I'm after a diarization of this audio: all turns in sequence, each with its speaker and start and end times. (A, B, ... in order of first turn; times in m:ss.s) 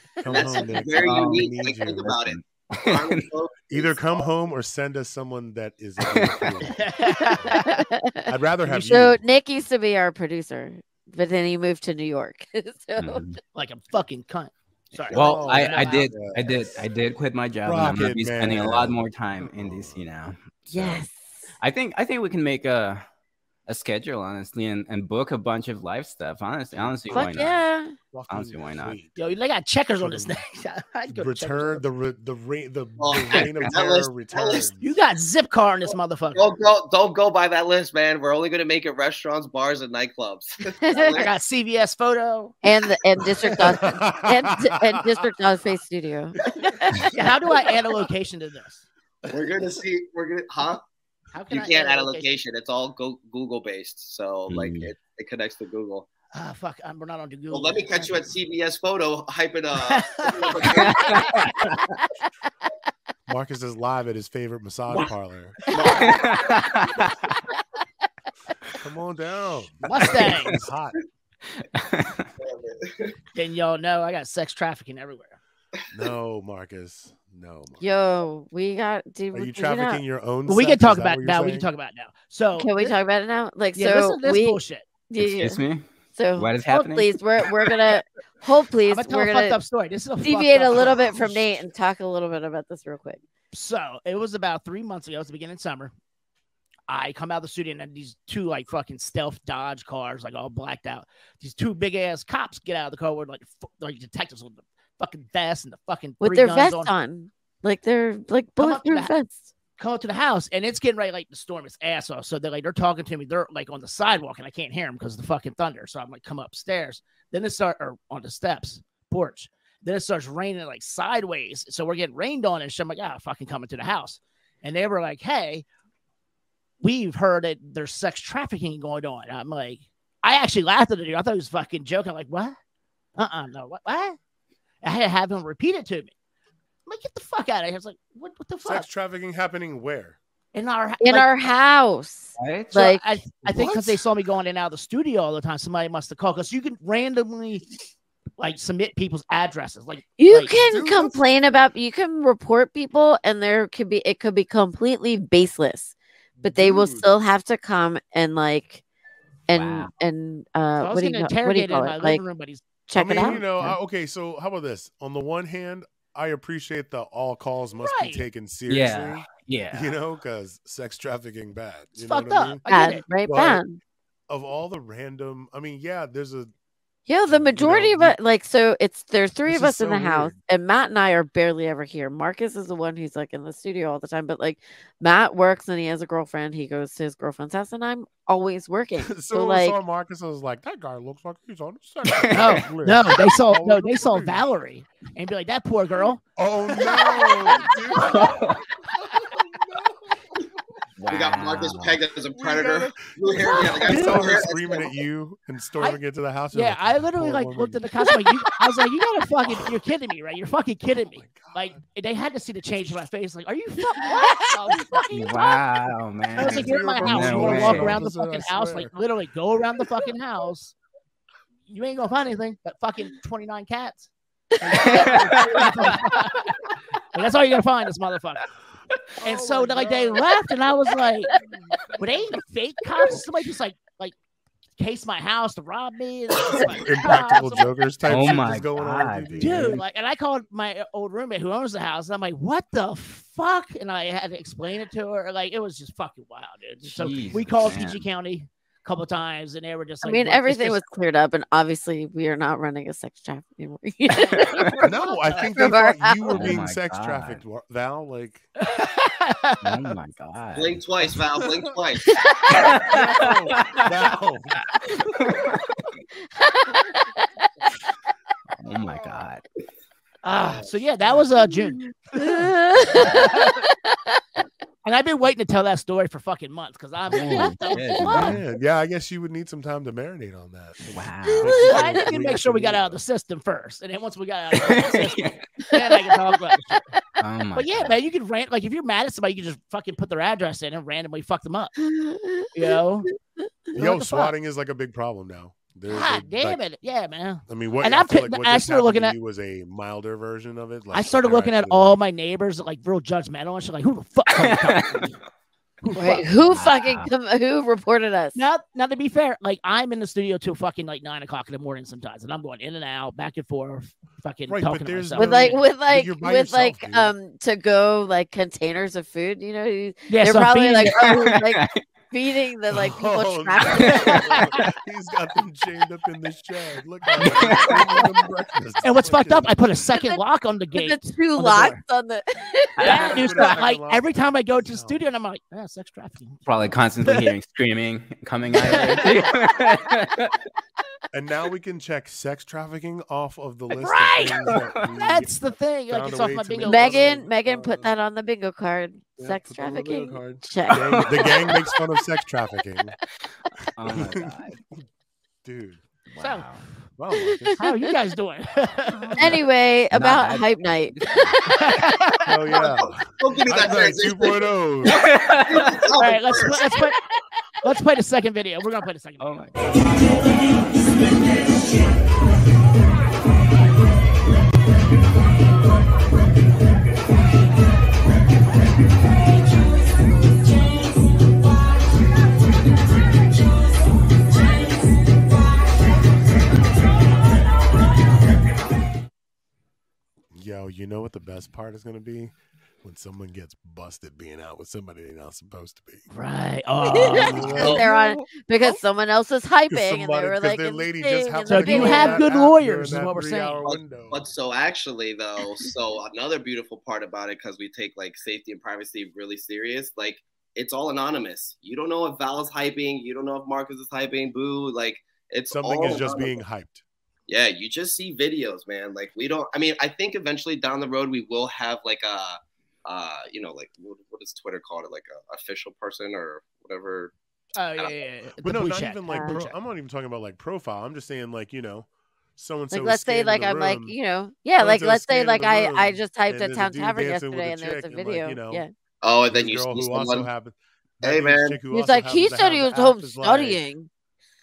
0:00.2-0:02.3 A
0:00.3-0:04.3 B
0:01.0-0:01.5 C
0:02.0-0:03.3 C
0:03.7-0:06.8 A
0:06.0-0:06.6 C
0:06.7-0:07.8 D
0:07.5-0:13.2 E
0:08.3-0:09.2 A
0:13.0-0:13.4 C
0:13.5-0:16.1 D
0:15.1-0:21.0 C
0:15.1-0:16.6 A
0:17.6-0:20.1 A
0:20.7-0:21.4 E
0:21.6-0:23.0 C
0:23.7-0:27.6 C
0:26.7-0:27.5 A
0:27.1-0:28.0 E
0:28.1-0:29.2 A
0:28.3-0:29.0 C
0:29.2-0:31.8 D
0:30.0-0:30.4 A
0:31.1-0:34.8 A
0:33.0-0:34.7 B
0:34.8-0:36.6 D
0:36.3-0:41.3 B
0:40.8-0:41.3 E
0:41.2-0:42.6 D
0:42.6-0:47.1 E
0:43.5-0:45.0 A
0:47.1-0:48.8 D
0:49.3-0:50.8 B
0:51.3-0:52.3 D
0:51.5-0:56.1 B
0:54.5-0:54.9 C
0:56.3-0:58.3 D
0:57.5-1:01.2 B
0:59.8-1:02.0 D
1:03.3-1:05.6 A
1:05.7-1:06.2 D
1:05.7-1:06.5 B
1:06.0-1:07.1 C
1:08.8-1:11.0 A
1:09.8-1:10.7 D
1:11.8-1:12.3 C
1:12.4-1:13.2 B
1:13.3-1:15.4 D
1:15.9-1:17.8 A
1:17.8-1:20.0 E
1:19.3-1:21.7 A
1:20.5-1:22.9 D
1:22.6-1:25.6 E
1:23.8-1:24.9 D
1:25.2-1:27.2 C
1:26.2-1:29.6 E
1:28.9-1:31.5 D
1:30.2-1:33.2 E
1:33.5-1:35.9 D
1:36.9-1:46.9 D
1:46.2-1:49.5 E
1:48.6-1:49.1 D
1:49.8-2:05.6 D
2:06.8-2:12.6 D
2:13.2-2:14.2 D
2:14.8-2:16.1 D
2:16.9-2:18.9 D
2:18.6-2:20.2 A
2:20.5-2:21.4 D
2:21.0-2:23.0 E
2:22.4-2:22.7 C
2:22.7-2:27.7 D
2:23.5-2:24.0 A
2:28.4-2:30.5 D
2:30.2-2:38.8 E
2:30.7-2:31.2 A
2:36.4-2:37.1 A
2:39.5-2:42.2 E
2:39.5-2:39.9 C
2:40.8-2:42.6 D
2:42.9-2:43.8 E
2:43.0-2:52.6 A
2:47.8-2:48.2 D
2:48.7-2:49.9 C
2:52.0-2:53.0 D
2:52.7-2:53.8 E
2:53.2-2:53.6 A
2:54.3-2:56.5 A
2:57.1-3:09.8 E
2:57.3-2:58.2 A
2:59.5-3:00.4 A
3:09.0-3:14.4 A
3:12.1-3:12.6 C
3:12.3-3:16.2 D
3:16.4-3:18.5 A
3:16.8-3:17.7 D
3:18.1-3:18.6 C
3:19.4-3:19.9 A
3:21.0-3:22.0 C
3:21.1-3:24.9 B
3:22.3-3:27.8 A
3:23.8-3:24.3 D
3:26.5-3:35.6 D
3:31.0-3:31.8 A
3:35.1-3:38.0 C
3:36.4-3:38.9 A
3:36.4-3:40.7 D
3:41.7-3:44.1 D
3:44.6-3:46.5 D
3:44.8-3:45.8 C
3:47.1-3:48.5 D
3:49.2-3:50.3 A
3:49.2-3:51.3 D
3:51.4-3:52.4 A
3:52.0-3:54.2 D
3:54.8-3:57.7 D
3:56.6-3:59.8 A
3:58.1-3:59.8 C
3:59.4-4:10.8 D
4:06.8-4:08.0 C
4:10.0-4:14.8 E
4:14.8-4:18.5 A
4:15.5-4:16.4 E
4:16.3-4:17.4 C
4:18.6-4:19.9 D
4:19.6-4:20.8 C
4:20.6-4:22.1 B
4:22.5-4:23.9 C
4:22.8-4:24.7 A
4:25.2-4:25.6 C
4:26.4-4:27.2 E
4:28.6-4:29.4 C
4:30.2-4:33.6 D
4:32.2-4:34.0 E
4:34.8-4:38.4 D
4:37.1-4:38.4 C
4:38.1-4:43.0 A
4:40.9-4:41.6 C
4:41.5-4:46.9 D
4:44.6-4:45.4 C
4:47.2-4:48.0 C
4:47.6-4:51.7 D
4:51.8-4:52.5 E
4:52.5-4:53.1 D
4:53.8-4:56.6 A
4:53.8-4:54.3 D
4:55.9-4:59.2 D
4:57.5-5:02.0 A
5:00.9-5:05.2 D
5:04.4-5:05.1 C
5:05.8-5:06.6 D
5:05.9-5:08.4 E
5:06.5-5:07.1 C
5:08.4-5:15.6 D
5:14.5-5:17.1 A
5:15.2-5:24.3 E
5:20.1-5:21.1 D
5:21.1-5:21.8 C
5:22.7-5:29.6 A
5:24.1-5:24.6 D
5:27.2-5:27.9 C
5:28.8-5:31.8 D
5:30.0-5:30.2 E
5:30.7-5:33.0 E
5:32.8-5:36.5 D
5:32.8-5:35.0 A
5:36.5-5:40.3 C
5:38.6-5:39.3 D
5:41.1-5:47.9 A
5:43.7-5:47.1 D
5:44.6-5:44.8 C
5:46.6-5:51.3 E
5:49.2-5:53.0 A
5:51.1-5:51.5 D
5:53.8-5:54.6 C
5:53.9-5:54.6 A
5:55.4-5:55.8 A
5:56.1-5:56.6 C
5:56.2-5:56.5 D
5:57.0-5:57.7 A
5:57.3-5:57.6 E
5:57.6-5:59.1 D
5:58.9-5:59.4 A
5:59.2-6:01.0 E
5:59.9-6:01.5 C
6:01.5-6:02.6 D
6:02.2-6:05.0 A
6:02.6-6:06.7 B
6:05.0-6:05.7 C
6:06.0-6:07.0 D
6:07.6-6:09.3 D
6:09.2-6:09.6 C
6:30.3-6:36.1 A
6:36.1-6:37.8 D
6:36.9-6:42.2 E
6:37.2-6:38.1 A
6:37.4-6:37.9 B
6:39.7-6:44.3 A
6:41.5-6:43.6 D
6:43.6-6:56.4 B
6:55.5-6:56.8 A
6:57.3-7:07.1 B
7:07.6-7:09.6 D
7:08.4-7:14.0 A
7:09.1-7:09.4 E
7:12.7-7:18.7 E
7:14.6-7:18.6 A
7:19.0-7:20.3 B
7:19.3-7:23.6 A
7:21.0-7:21.6 B
7:21.7-7:23.9 E